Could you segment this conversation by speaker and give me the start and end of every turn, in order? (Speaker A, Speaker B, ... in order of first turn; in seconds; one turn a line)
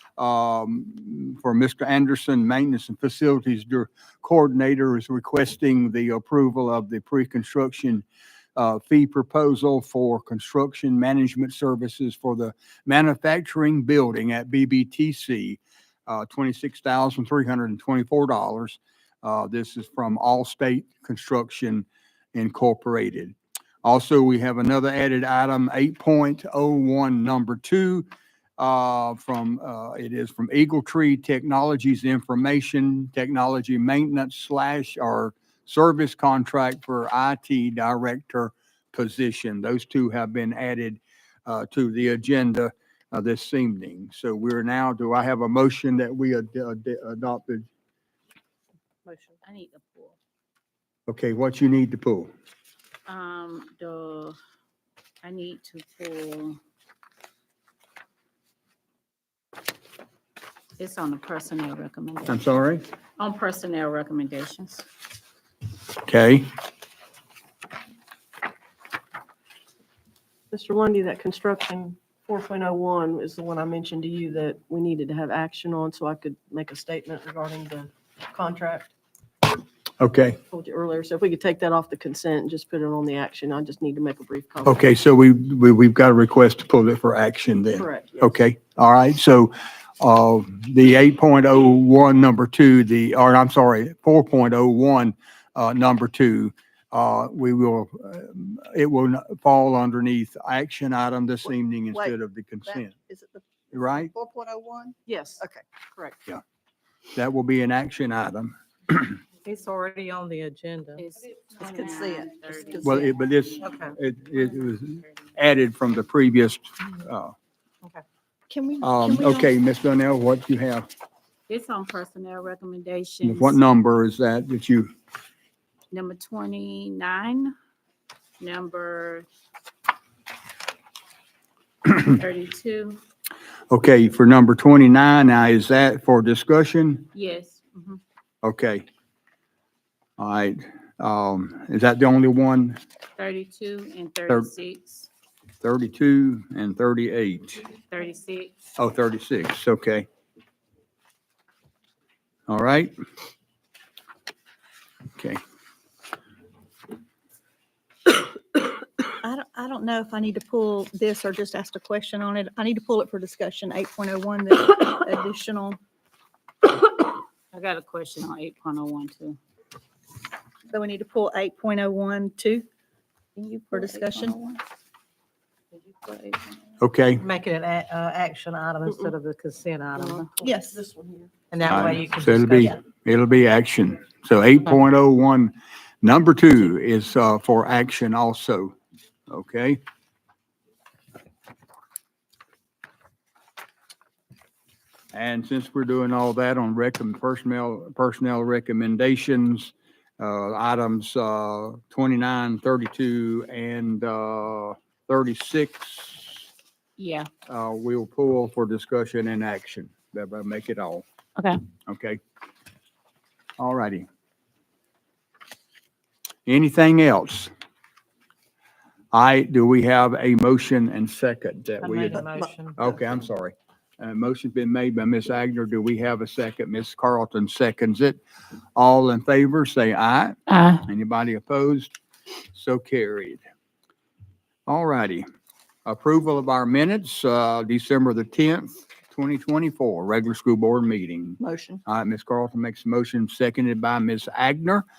Speaker A: 0.2-8.0
Speaker A: 8.6-28.1
Speaker A: 28.6-47.7
Speaker B: 49.4-50.2
Speaker A: 51.1-52.3
Speaker B: 53.1-54.4
Speaker B: 55.2-56.6
Speaker B: 60.8-62.4
Speaker A: 62.3-62.8
Speaker B: 63.2-64.8
Speaker A: 66.0-66.5
Speaker C: 70.5-78.9
Speaker A: 80.0-80.4
Speaker C: 80.5-84.8
Speaker A: 84.7-103.0
Speaker C: 87.7-88.3
Speaker A: 103.7-104.1
Speaker D: 104.1-104.7
Speaker C: 105.0-106.2
Speaker A: 107.2-109.2
Speaker E: 109.4-111.0
Speaker B: 111.0-115.1
Speaker A: 112.8-117.3
Speaker E: 113.6-113.9
Speaker D: 118.5-119.5
Speaker A: 118.8-120.8
Speaker B: 121.5-123.6
Speaker A: 123.2-124.9
Speaker B: 125.9-127.5
Speaker B: 128.4-129.2
Speaker B: 131.9-133.0
Speaker A: 133.7-137.1
Speaker B: 137.1-138.0
Speaker A: 138.4-138.8
Speaker A: 140.2-142.8
Speaker B: 143.2-145.1
Speaker A: 145.6-147.7
Speaker B: 147.9-148.5
Speaker A: 148.8-150.1
Speaker A: 152.5-152.9
Speaker D: 159.2-165.8
Speaker B: 167.5-169.4
Speaker D: 170.7-172.7
Speaker B: 173.4-174.3
Speaker D: 173.6-174.6
Speaker B: 175.7-176.6
Speaker A: 176.8-177.2
Speaker E: 177.2-180.5
Speaker B: 179.9-180.3
Speaker D: 180.4-180.8
Speaker C: 180.4-181.3
Speaker E: 181.5-182.8
Speaker A: 181.7-188.8
Speaker A: 189.3-189.8
Speaker A: 195.1-206.4
Speaker B: 207.0-207.3
Speaker A: 207.5-211.0
Speaker A: 211.9-212.2
Speaker A: 213.6-214.1
Speaker A: 216.5-217.5
Speaker A: 219.1-228.2
Speaker E: 221.8-223.0
Speaker A: 228.8-231.9
Speaker B: 230.5-230.8
Speaker A: 232.5-233.4
Speaker A: 234.7-235.2
Speaker A: 235.8-244.8
Speaker D: 241.4-241.8